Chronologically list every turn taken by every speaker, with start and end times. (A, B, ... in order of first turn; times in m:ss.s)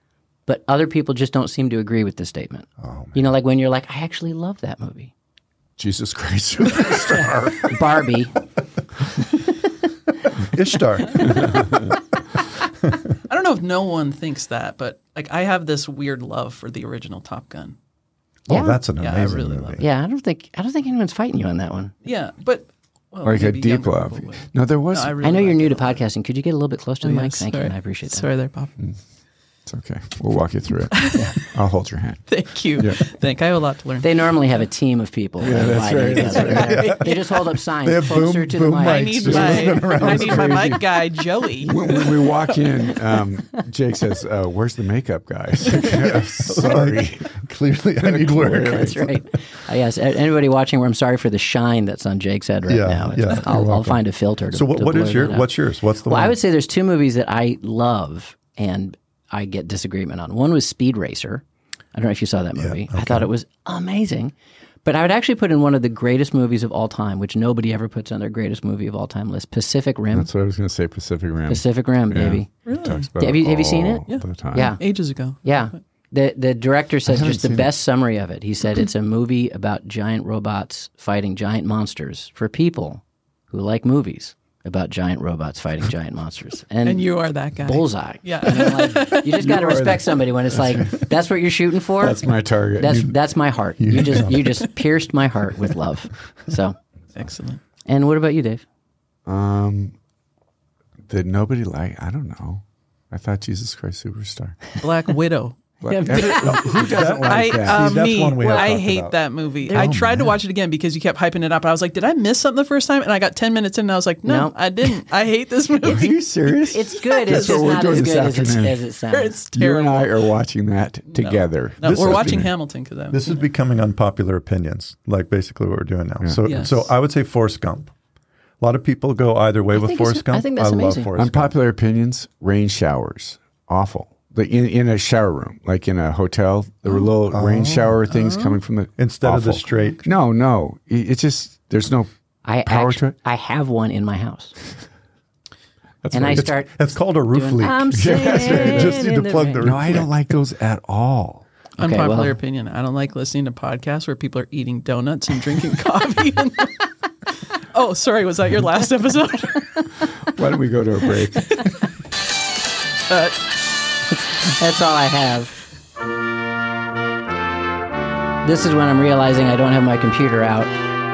0:00.5-0:05.1 A
0:02.8-0:03.2 B
0:05.8-0:07.8 C
0:07.6-0:08.3 A
0:10.4-0:11.8 B
0:13.3-0:17.8 D
0:18.5-0:19.8 B
0:18.5-0:18.8 A
0:19.0-0:19.8 D
0:19.8-0:21.9 A
0:22.0-0:26.0 D
0:23.2-0:25.2 C
0:25.2-0:28.2 A
0:27.0-0:28.7 D
0:29.6-0:33.0 C
0:30.9-0:31.5 D
0:32.3-0:34.6 D
0:34.0-0:39.6 A
0:35.4-0:36.8 C
0:36.1-0:37.4 D
0:36.5-0:40.8 B
0:38.8-0:42.8 D
0:39.3-0:40.8 C
0:41.6-0:47.4 C
0:46.5-0:49.2 B
0:48.0-0:49.0 C
0:48.4-1:04.3 A
0:52.7-0:56.4 B
1:02.6-1:03.3 B
1:04.8-1:10.3 A
1:10.1-1:14.8 C
1:11.5-1:12.5 A
1:12.6-1:13.1 D
1:13.2-1:14.8 A
1:14.1-1:15.8 D
1:15.4-1:27.0 A
1:17.0-1:17.7 C
1:26.8-1:29.4 D
1:27.6-1:32.2 A
1:29.3-1:31.0 C
1:32.0-1:33.1 C
1:32.8-1:36.8 A
1:32.8-1:33.1 B
1:33.8-1:34.6 B
1:37.1-1:37.6 D
1:37.8-1:38.6 A
1:39.2-1:39.9 C
1:41.1-1:44.6 C
1:44.8-1:45.6 D
1:45.8-1:48.1 C
1:45.9-1:46.8 A
1:46.8-1:56.2 D
1:46.9-1:49.2 B
1:48.4-1:48.8 A
1:49.6-1:50.1 A
1:49.7-1:50.3 B
1:54.2-1:54.5 A
1:55.8-1:58.8 C
1:56.7-1:59.3 A
1:59.1-2:00.3 D
1:59.5-2:02.5 C
2:01.1-2:03.4 D
2:01.8-2:02.5 B
2:03.1-2:07.9 B
2:06.4-2:06.9 D
2:08.6-2:11.6 B
2:09.7-2:11.1 A
2:11.2-2:22.1 C
2:17.3-2:18.0 B
2:18.2-2:18.6 D
2:19.0-2:20.0 B
2:22.4-2:24.5 A
2:22.6-2:23.2 C
2:26.0-2:26.5 C
2:26.1-2:30.1 A
2:26.3-2:30.1 B
2:27.9-2:29.0 C
2:29.6-2:31.4 C
2:31.8-2:32.4 A
2:31.8-2:36.8 D
2:37.6-2:39.9 D
2:40.3-2:41.6 C
2:43.1-2:43.3 D
2:44.1-2:45.5 A
2:48.4-2:50.7 A